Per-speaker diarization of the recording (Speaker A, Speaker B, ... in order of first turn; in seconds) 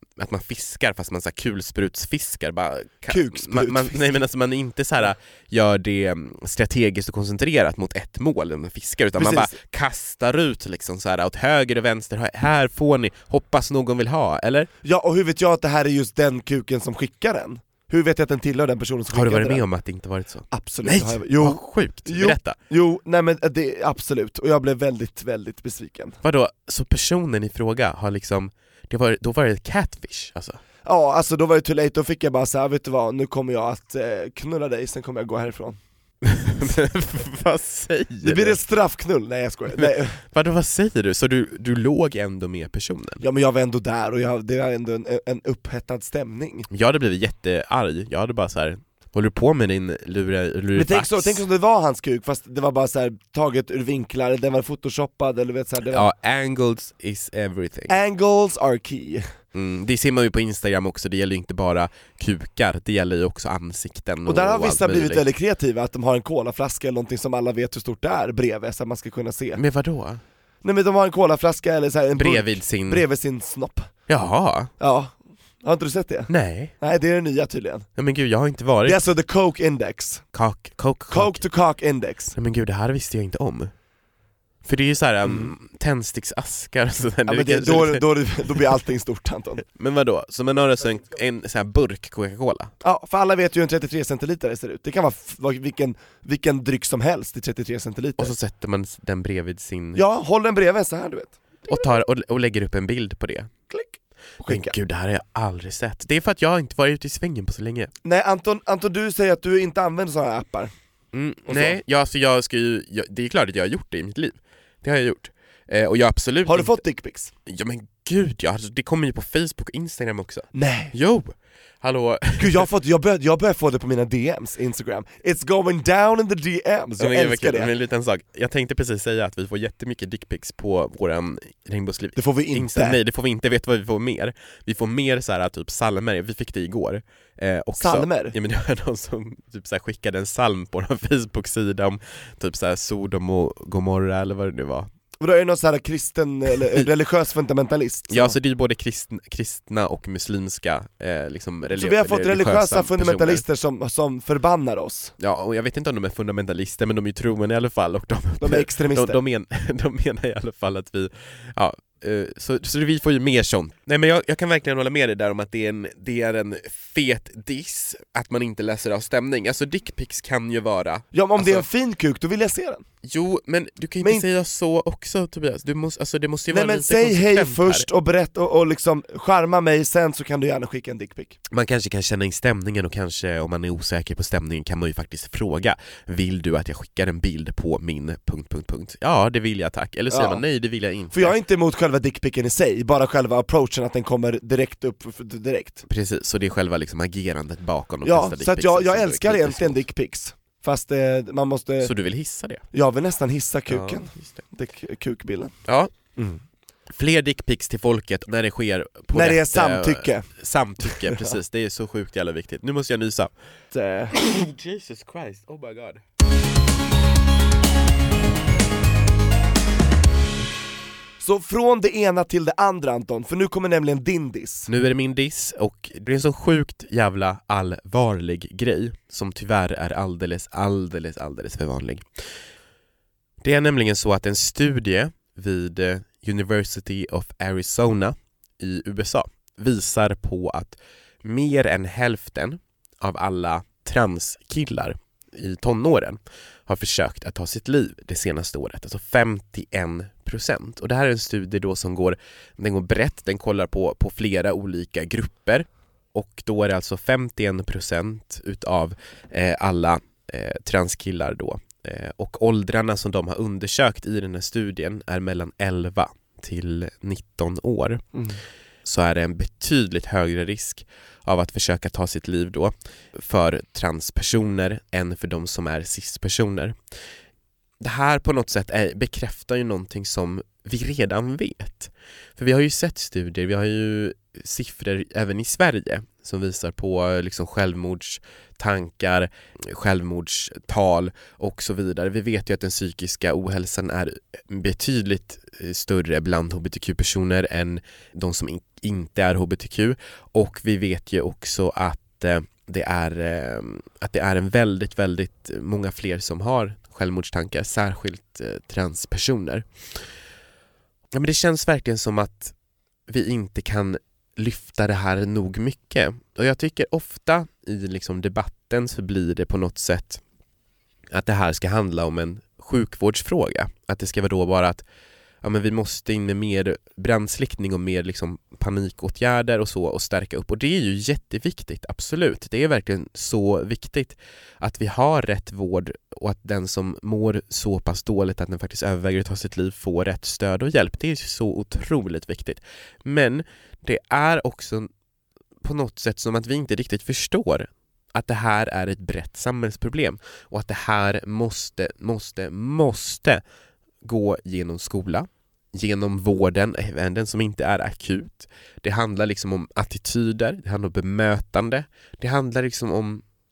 Speaker A: 0.2-14.7, 19.1-22.6, 26.2-30.6, 36.2-38.6, 39.7-43.2, 46.7-51.4, 55.9-58.0, 59.5-65.2, 69.5-70.2, 72.1-73.0, 74.1-74.7, 76.3-76.7, 78.0-79.0, 80.3-81.5, 82.3-83.7, 84.6-88.1, 89.8-92.7, 98.2-100.0, 101.7-103.5, 104.5-107.9, 111.1-116.8, 117.5-122.7, 127.0-144.9, 148.1-153.4, 155.2-171.7, 173.0-177.9, 181.5-191.4, 195.9-199.8, 201.8-202.6, 203.7-204.4, 205.7-205.9, 206.9-213.3, 214.1-216.0, 224.7-232.0, 233.4-268.0, 268.8-276.8, 277.8-309.6, 311.1-312.5, 313.1-320.2, 321.1-324.8, 325.4-344.9, 345.6-353.4, 354.0-363.2
Speaker B: 3.1-4.1, 9.2-9.6, 14.8-19.6, 20.5-26.2, 30.8-35.8, 38.2-40.2, 43.2-46.7, 50.7-56.1, 57.9-59.2, 64.2-69.6, 70.6-73.9, 74.8-77.9, 78.8-80.2, 81.1-82.3, 85.2-85.5, 87.3-89.6, 92.8-98.3, 99.9-101.8, 103.7-104.7, 108.0-110.7, 111.5-111.8, 116.4-117.3, 120.5-120.9, 122.4-127.7, 132.2-133.0, 137.8-138.3, 145.2-148.3, 151.7-155.1, 158.4-159.2, 171.1-172.8, 176.5-181.4, 190.1-190.4, 191.1-195.8, 198.0-201.9, 202.7-205.5, 206.2-206.4, 209.1-210.3, 210.8-211.3, 213.7-214.2, 221.2-224.7, 268.1-268.4